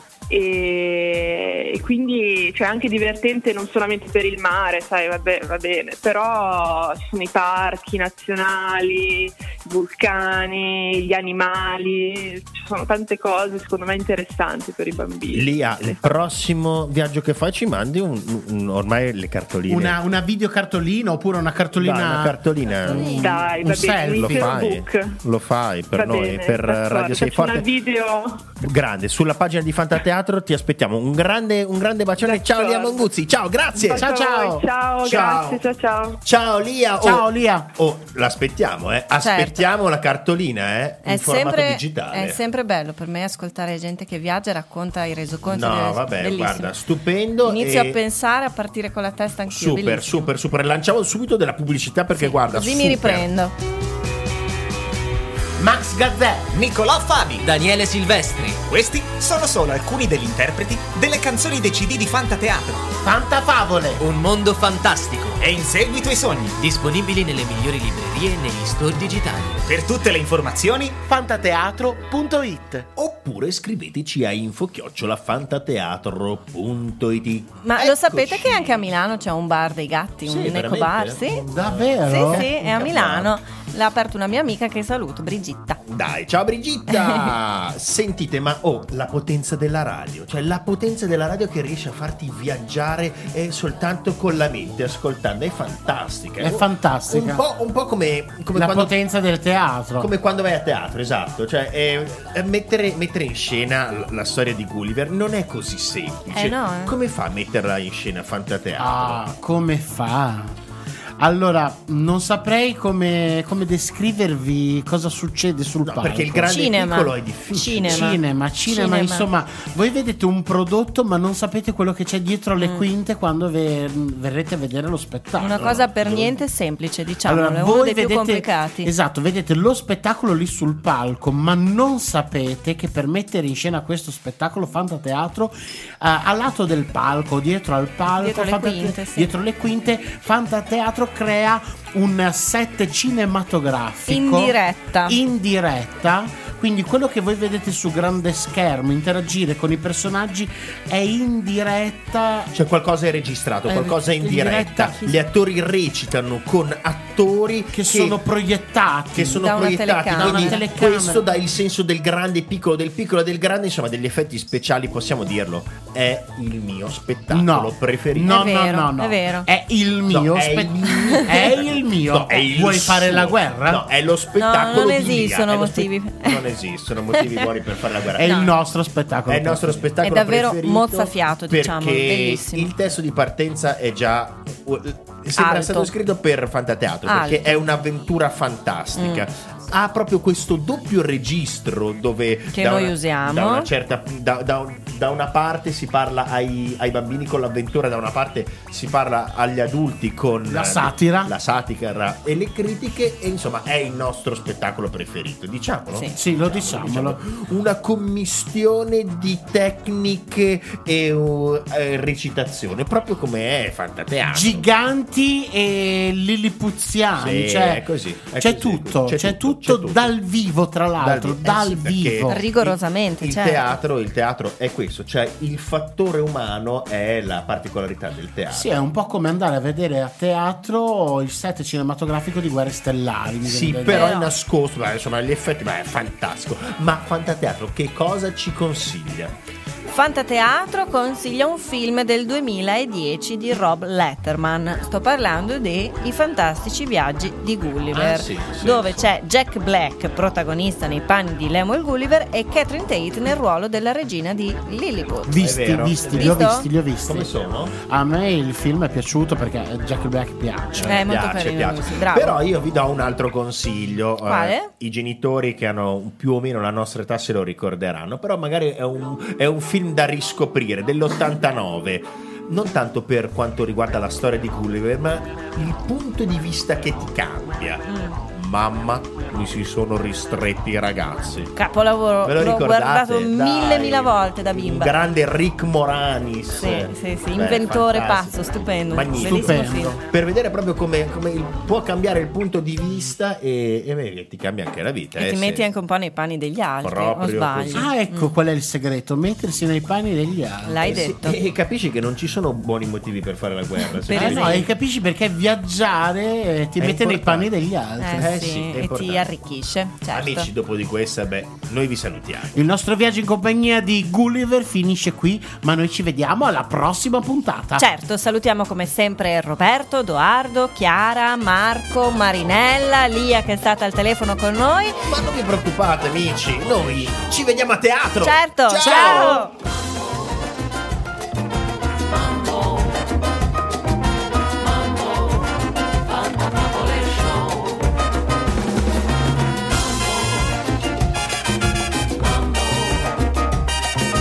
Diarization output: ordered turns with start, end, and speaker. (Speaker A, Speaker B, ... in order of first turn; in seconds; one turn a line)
Speaker A: 0.3-16.1
Speaker B: 15.3-20.0
Speaker C: 19.7-24.6
Speaker B: 21.7-23.2
Speaker A: 22.9-25.2
Speaker B: 23.9-27.6
Speaker A: 25.9-28.5
Speaker B: 28.6-34.0
Speaker A: 32.2-33.1
Speaker A: 33.8-36.2
Speaker C: 33.9-34.7
Speaker B: 35.0-35.6
Speaker B: 36.2-42.4
Speaker C: 37.0-37.7
Speaker D: 39.2-39.6
Speaker D: 41.0-46.7
Speaker B: 45.4-48.0
Speaker D: 47.4-50.3
Speaker B: 49.5-53.3
Speaker D: 52.1-53.5
Speaker C: 55.6-56.5
Speaker E: 56.5-57.5
Speaker F: 57.4-58.6
Speaker E: 58.6-62.9
Speaker C: 63.0-64.0
Speaker F: 64.0-65.4
Speaker E: 65.4-66.7
Speaker F: 66.6-69.6
Speaker E: 69.6-71.0
Speaker C: 71.0-72.9
Speaker B: 73.0-78.9
Speaker D: 77.6-81.4
Speaker B: 80.2-83.3
Speaker C: 81.5-82.5
Speaker D: 82.0-85.8
Speaker B: 85.9-98.9
Speaker D: 86.9-87.3
Speaker C: 96.4-97.4
Speaker C: 98.5-100.1
Speaker B: 100.0-109.2
Speaker D: 106.3-106.9
Speaker C: 108.7-110.5
Speaker C: 111.2-116.6
Speaker B: 115.8-118.1
Speaker D: 116.4-119.3
Speaker C: 117.8-125.8
Speaker D: 122.6-122.8
Speaker D: 125.4-128.9
Speaker B: 125.5-126.4
Speaker C: 127.2-152.5
Speaker D: 138.1-139.3
Speaker D: 144.1-145.2
Speaker B: 152.5-158.2
Speaker C: 153.7-155.2
Speaker C: 157.7-159.6
Speaker B: 159.1-168.4
Speaker D: 159.4-160.6
Speaker C: 160.1-161.2
Speaker C: 167.3-173.8
Speaker D: 168.2-169.5
Speaker B: 170.1-178.5
Speaker D: 174.3-176.4
Speaker D: 177.2-177.4
Speaker C: 178.1-179.9
Speaker D: 178.2-178.5
Speaker B: 179.3-214.7
Speaker D: 180.0-182.7
Speaker D: 185.3-185.9
Speaker D: 187.1-187.6
Speaker D: 188.9-189.2
Speaker D: 192.5-193.7
Speaker C: 200.5-201.3
Speaker C: 206.1-207.2
Speaker C: 214.3-222.4
Speaker B: 217.2-220.1
Speaker B: 221.0-228.8
Speaker D: 222.3-223.8
Speaker C: 228.5-234.2
Speaker B: 233.4-239.3
Speaker D: 233.9-234.3
Speaker D: 239.9-255.4
Speaker B: 247.9-249.1
Speaker C: 255.2-261.1
Speaker B: 255.4-256.5
Speaker D: 256.1-256.7
Speaker B: 257.0-257.8
Speaker B: 260.8-281.5
Speaker D: 260.8-262.4
Speaker D: 264.2-264.7
Speaker D: 277.9-278.2
Speaker D: 281.5-284.9
Speaker B: 282.2-295.6
Speaker D: 286.6-290.0
Speaker C: 289.2-290.0
Speaker D: 295.1-298.3
Speaker B: 296.8-297.9
Speaker C: 297.7-301.1
Speaker D: 300.6-301.4
Speaker B: 300.8-304.7
Speaker D: 304.0-304.7
Speaker C: 304.1-308.4
Speaker B: 306.8-307.5
Speaker D: 308.0-310.5
Speaker B: 308.2-309.3
Speaker B: 310.1-312.6
Speaker C: 312.5-317.8
Speaker D: 317.8-325.0
Speaker B: 325.0-329.5
Speaker D: 328.2-329.5
Speaker C: 328.8-329.5